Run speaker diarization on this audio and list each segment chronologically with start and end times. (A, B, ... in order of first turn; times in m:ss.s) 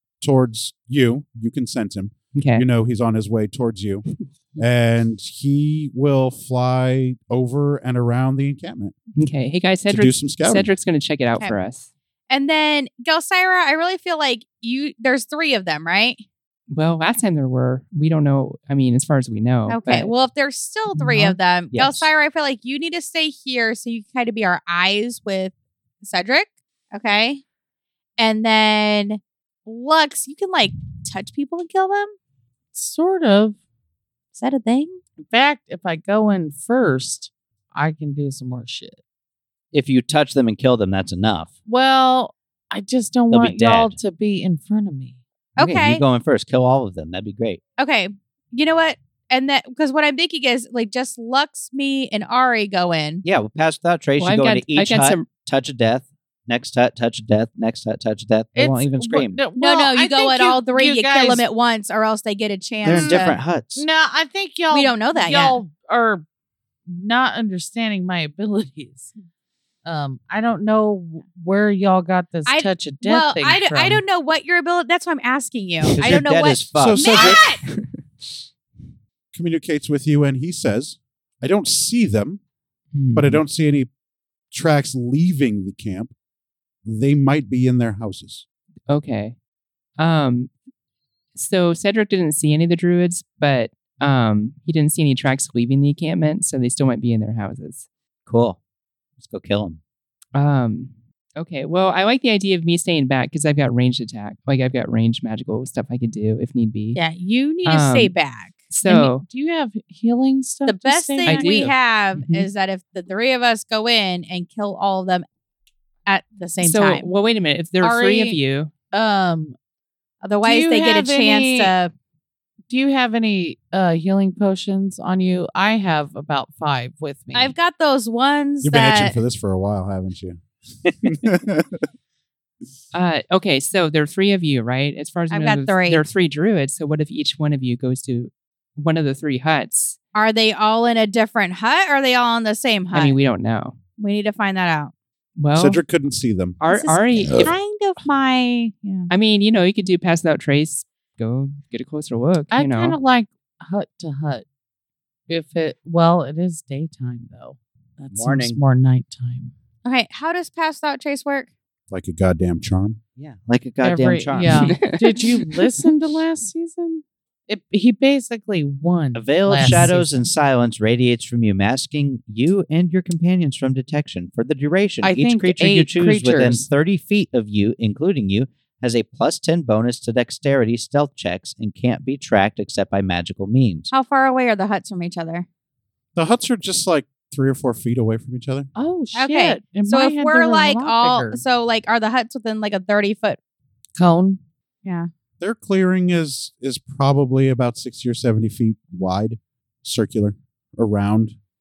0:00.2-0:04.0 A
0:02.4-0:02.6 B
0:04.6-0:09.0 A
0:09.2-0:11.9 B
0:09.9-0:10.7 A
0:12.3-0:16.2 C
0:16.7-0:20.1 B
0:19.7-0:27.4 C
0:21.0-0:21.4 B
0:21.7-0:22.1 D
0:28.2-0:32.1 C
0:32.7-0:33.6 E
0:34.3-0:35.0 C
0:35.2-0:39.0 E
0:39.7-0:41.5 D
0:41.7-0:45.2 E
0:43.3-0:44.0 D
0:45.6-0:46.0 C
0:45.6-0:47.6 D
0:47.8-0:53.2 C
0:53.2-0:59.4 D
0:54.2-0:55.3 B
0:58.6-1:01.4 E
0:59.6-1:03.3 C
1:02.8-1:03.9 D
1:02.8-1:06.2 E
1:04.7-1:05.6 C
1:06.9-1:09.1 E
1:09.8-1:14.0 E
1:12.4-1:17.6 C
1:16.0-1:17.2 D
1:16.7-1:17.4 A
1:17.6-1:18.3 B
1:19.3-1:22.4 A
1:22.9-1:23.4 B
1:23.1-1:23.9 A
1:24.5-1:26.1 A
1:26.8-1:28.4 A
1:28.9-1:29.4 B
1:30.0-1:30.5 B
1:31.4-1:37.8 B
1:38.3-1:38.6 D
1:39.2-1:39.8 D
1:40.4-1:47.0 B
1:47.0-1:48.7 C
1:47.6-1:48.1 B
1:48.7-1:49.2 B
1:48.9-1:51.6 E
1:50.6-1:55.2 C
1:51.3-1:52.5 B
1:56.1-1:57.1 C
1:56.6-1:58.7 B
1:57.8-1:58.4 E
1:58.9-1:59.6 E
2:00.2-2:01.9 C
2:00.4-2:01.7 E
2:02.7-2:07.6 E
2:07.3-2:09.2 C
2:08.6-2:11.8 A
2:12.9-2:20.0 B
2:15.3-2:16.1 C
2:20.1-2:23.2 C
2:22.9-2:23.8 B
2:24.0-2:24.9 C
2:25.4-2:25.8 B
2:25.6-2:26.6 A
2:26.6-2:27.6 B
2:26.6-2:29.1 C
2:29.1-2:33.0 B
2:32.5-2:34.4 E
2:35.3-2:39.5 E
2:38.1-2:38.6 D
2:39.8-2:41.5 C
2:41.9-2:43.0 A
2:43.2-2:44.8 D
2:43.8-2:50.3 E
2:44.6-2:45.6 B
2:49.1-3:03.9 D
2:55.0-2:56.6 E
3:03.9-3:05.4 C
3:06.2-3:08.7 A
3:08.7-3:11.4 E
3:09.1-3:13.4 C
3:14.0-3:14.4 E
3:15.4-3:21.4 A